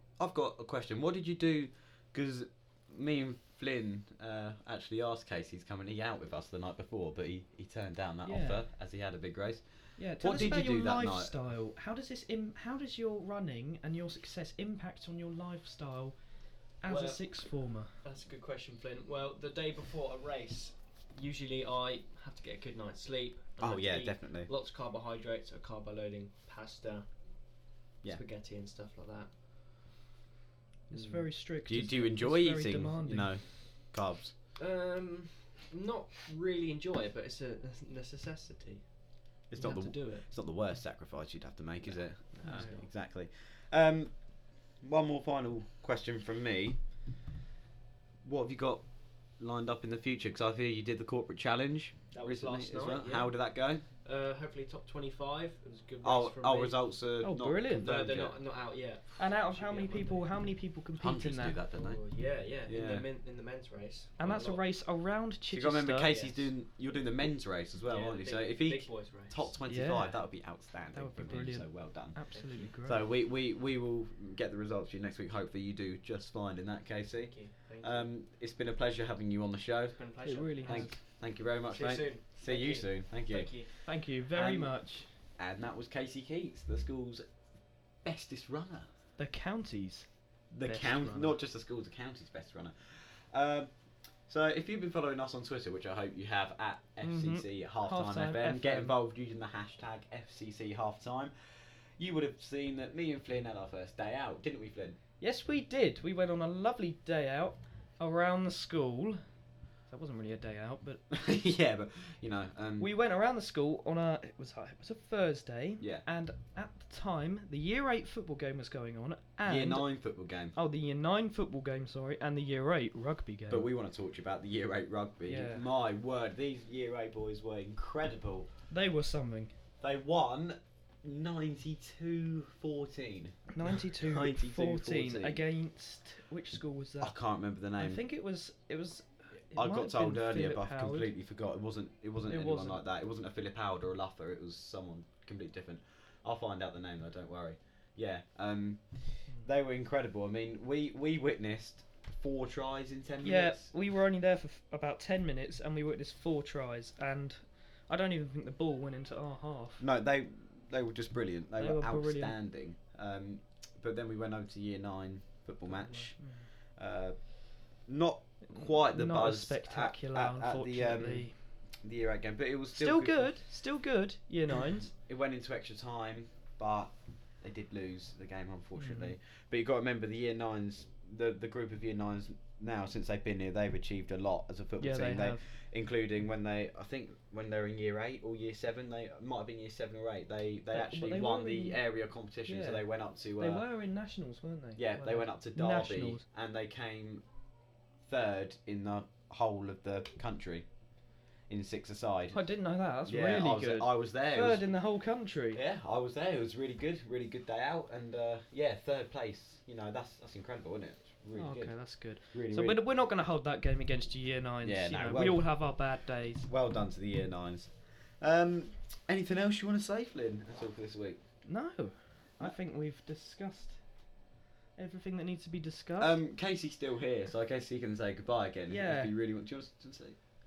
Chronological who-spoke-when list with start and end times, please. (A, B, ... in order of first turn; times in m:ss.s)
0:00.2-0:11.4 A
0:08.2-0:08.6 B
0:10.0-0:16.2 B
0:16.8-0:17.9 B
0:16.9-0:17.5 C
0:18.0-0:27.1 C
0:23.6-0:24.5 A
0:28.0-0:29.3 C
0:30.9-0:33.4 B
0:30.9-0:31.3 C
0:31.7-0:34.3 A
0:34.6-0:38.8 C
0:39.5-0:46.8 A
0:39.5-0:40.3 C
0:41.8-0:42.9 C
0:42.4-0:42.8 B
0:48.2-0:48.9 A
0:49.4-0:53.8 A
0:52.1-0:53.5 C
0:54.0-0:56.9 C
0:56.0-0:58.4 A
0:57.2-0:57.9 B
0:57.8-1:00.3 C
0:59.2-1:01.7 B
1:01.0-1:02.0 A
1:01.7-1:04.6 C
1:02.7-1:03.1 A
1:04.2-1:06.2 B
1:05.5-1:20.1 A
1:06.0-1:06.5 C
1:07.8-1:09.5 C
1:09.6-1:10.3 B
1:10.9-1:13.1 B
1:12.3-1:12.7 C
1:17.2-1:18.1 C
1:19.9-1:21.0 C
1:20.2-1:21.0 B
1:20.6-1:23.6 A
1:21.5-1:23.7 C
1:23.9-1:25.1 B
1:24.3-1:27.2 A
1:28.0-1:28.9 A
1:29.2-1:30.1 B
1:30.5-1:33.7 A
1:30.6-1:31.4 B
1:34.3-1:41.3 A
1:37.0-1:39.0 B
1:42.0-1:45.0 A
1:45.2-1:49.2 B
1:49.9-1:51.0 B
1:51.1-1:52.9 A
1:52.8-2:00.0 B
1:55.8-1:56.0 A
1:59.4-2:00.6 A
2:00.6-2:03.7 B
2:03.5-2:08.5 A
2:05.3-2:05.6 B
2:08.7-2:09.5 B
2:09.8-2:15.4 A
2:13.5-2:17.2 B
2:17.0-2:18.0 A
2:17.8-2:21.1 B
2:19.6-2:33.7 A
2:22.3-2:22.8 B
2:33.2-2:39.8 B
2:39.8-2:46.2 A
2:41.6-2:42.4 B
2:45.7-2:46.5 B
2:46.8-2:53.4 A
2:48.4-2:51.4 B
2:52.7-2:54.9 B
2:54.9-3:13.7 A
2:58.8-2:59.1 B
3:04.8-3:05.4 B
3:10.7-3:11.8 B
3:12.5-3:16.2 B
3:14.8-3:17.2 A
3:18.0-3:20.7 A
3:21.5-3:22.4 A
3:22.3-3:25.6 B
3:23.0-3:24.7 A
3:25.5-3:32.8 A
3:31.4-3:36.5 B
3:34.6-3:35.9 A
3:36.5-3:41.2 A
3:41.5-3:43.8 B
3:44.8-3:46.2 B
3:46.0-3:50.2 A
3:48.7-3:49.1 B